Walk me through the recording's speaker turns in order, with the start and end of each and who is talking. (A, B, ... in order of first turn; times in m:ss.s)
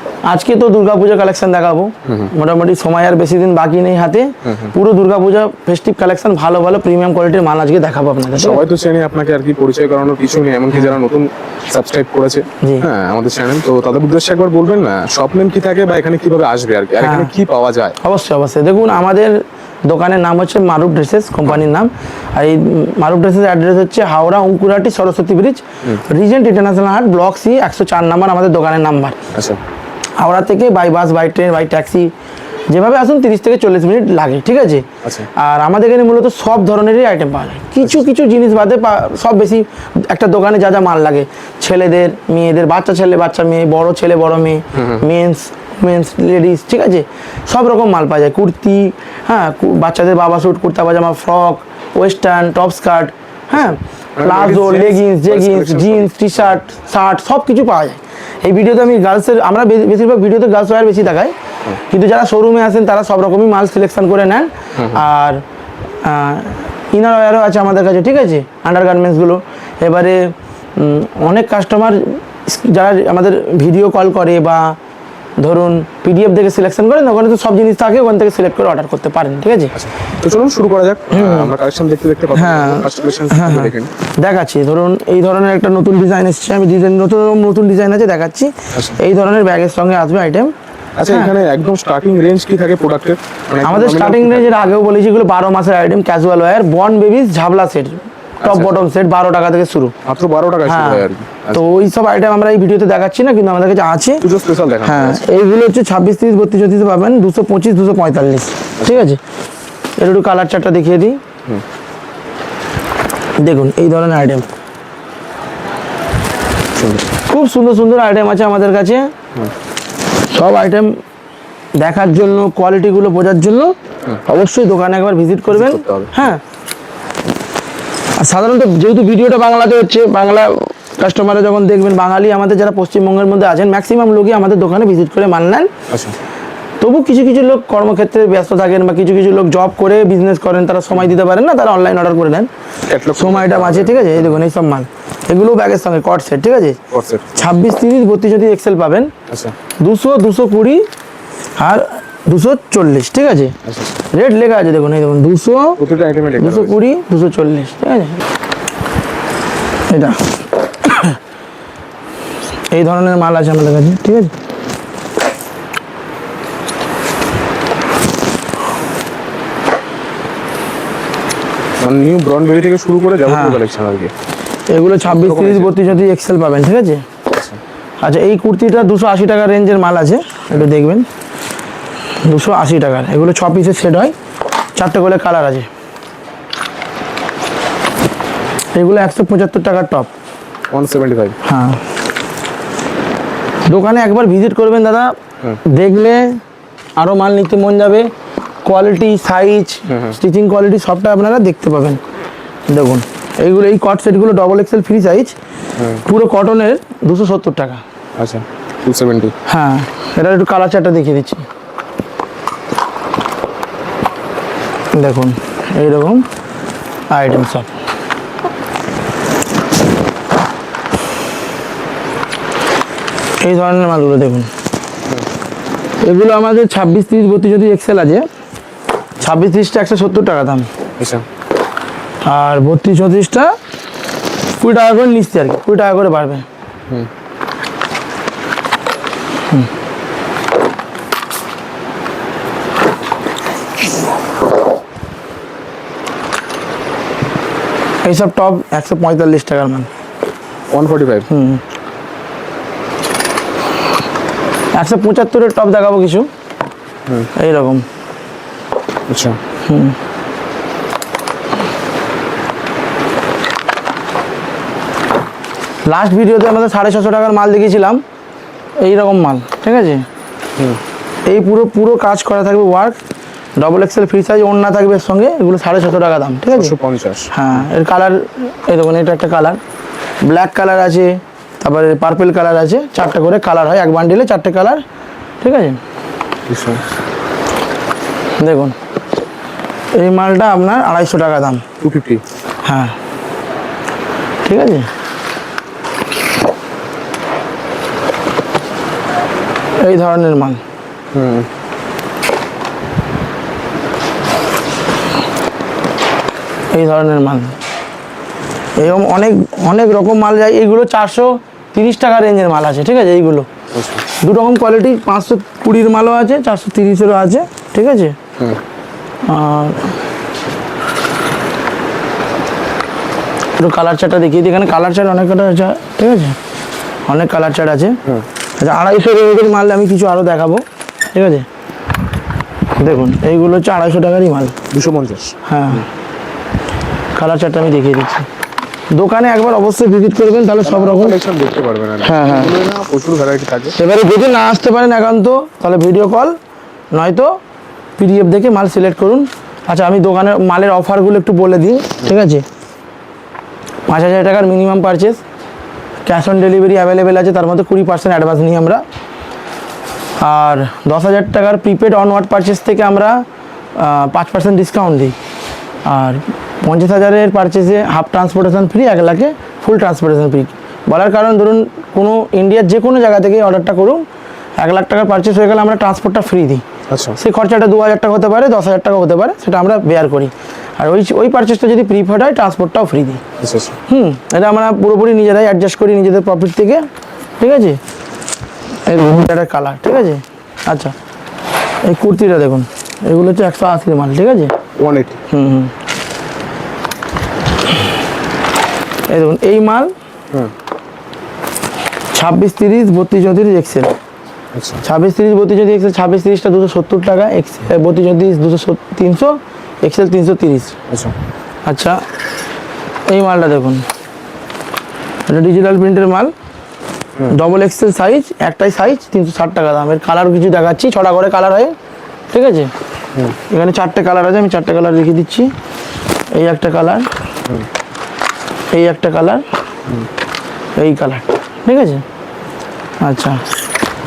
0:00.2-0:08.6 A
0:02.0-0:02.3 B
0:04.4-0:04.7 B
0:08.3-0:18.0 B
0:12.6-0:12.9 A
0:17.0-0:17.3 A
0:18.0-0:29.2 A
0:29.3-0:29.6 B
0:30.2-0:32.1 A
0:32.7-1:05.4 A
0:35.0-0:35.3 B
0:44.7-0:45.0 B
0:53.5-0:56.1 B
1:06.0-1:14.8 A
1:15.4-1:19.7 A
1:19.8-1:23.9 B
1:21.1-1:21.5 A
1:22.3-1:30.5 A
1:28.7-1:29.0 B
1:31.0-1:34.5 B
1:31.0-1:31.3 A
1:33.6-1:39.9 A
1:38.4-1:38.8 B
1:40.0-1:41.6 B
1:40.6-1:44.2 A
1:44.2-1:45.2 B
1:44.8-1:49.2 A
1:48.8-1:49.1 B
1:50.0-1:51.2 A
1:53.4-1:54.4 A
1:56.7-1:57.1 B
1:57.2-1:59.1 A
2:00.3-2:01.0 A
2:01.8-2:06.4 A
2:05.5-2:06.2 B
2:08.2-2:15.7 A
2:15.9-2:16.1 B
2:16.8-2:22.5 A
2:22.9-2:24.3 B
2:23.1-2:26.8 A
2:26.9-2:27.4 B
2:27.3-2:29.1 A
2:29.3-2:29.5 B
2:29.8-2:30.9 A
2:31.6-2:33.6 A
2:33.6-2:33.9 B
2:34.1-2:35.8 A
2:35.8-2:36.7 B
2:36.4-2:38.2 A
2:39.9-2:41.2 A
2:42.7-2:44.3 A
2:51.8-2:54.1 B
2:53.3-2:53.6 A
2:54.7-2:57.0 A
2:55.0-2:55.8 B
2:57.3-2:57.6 B
2:58.0-3:01.1 A
3:02.2-3:04.1 A
3:04.7-3:05.7 A
3:08.7-3:10.1 A
3:10.7-3:11.4 B
3:11.4-3:11.8 A
3:13.7-3:16.4 A
3:17.0-3:18.1 A
3:18.6-3:22.0 A
3:19.9-3:20.2 B
3:22.7-3:25.4 A
3:25.8-3:26.0 B
3:26.0-3:27.8 A
3:28.2-3:29.3 B
3:29.5-3:31.4 A
3:34.9-3:36.2 A
3:37.1-3:37.7 A
3:43.4-3:44.5 A
3:46.0-3:48.3 A
3:49.2-3:50.7 A
3:51.0-3:51.2 B
3:52.2-3:53.6 A
3:54.6-3:56.4 A
4:08.0-4:09.9 A
4:10.7-4:11.3 B
4:11.3-4:11.6 A
4:14.7-4:16.3 A
4:17.3-4:17.8 A
4:19.1-4:19.4 B
4:19.6-4:20.0 A
4:25.8-4:28.0 A
4:28.8-4:30.0 A
4:31.2-4:33.0 A
4:33.6-4:36.8 A
4:36.5-4:37.3 B
4:37.3-4:39.6 A
4:40.2-4:44.8 A
4:45.4-4:45.8 A
4:46.5-4:46.8 B
4:48.4-4:48.8 A
4:49.9-4:51.6 A
4:51.8-4:52.2 B
4:52.6-4:53.0 A
4:54.4-4:54.9 A
4:59.8-5:00.6 A
5:01.1-5:01.5 B
5:06.7-5:07.6 A
5:08.8-5:13.5 A
5:13.7-5:14.0 B
5:14.2-5:18.2 A
5:19.2-5:19.9 A
5:23.6-5:26.4 A
5:27.1-5:28.0 A
5:28.6-5:31.4 A
5:32.8-5:34.6 A
5:34.7-5:35.4 B
5:35.4-5:35.9 A
5:37.1-5:38.3 A
5:38.9-5:41.2 A
5:40.6-5:43.8 B
5:42.0-5:42.5 A
5:43.8-5:46.4 A
5:46.9-5:47.4 A
5:48.0-5:52.4 A
5:53.9-5:55.2 A
5:56.0-5:58.8 A
6:00.2-6:05.2 A
6:05.8-6:14.0 A
6:14.6-6:16.6 A
6:16.9-6:17.2 B
6:17.2-6:23.2 A
6:23.4-6:23.8 B
6:23.9-6:26.9 A
6:27.4-6:27.8 A
6:28.8-6:30.9 A
6:31.8-6:34.5 A
6:34.8-6:35.2 B
6:35.3-6:35.7 A
6:39.1-6:39.9 A
6:42.1-6:43.9 A
6:44.5-6:44.8 B
6:44.8-6:50.8 A
6:51.6-6:52.0 A
6:53.1-6:53.8 A
6:55.3-6:56.3 A
6:57.3-7:01.7 A
7:02.3-7:02.7 A
7:03.5-7:05.5 A
7:06.3-7:07.1 A
7:08.7-7:09.4 A
7:10.8-7:12.0 A
7:13.0-7:13.4 A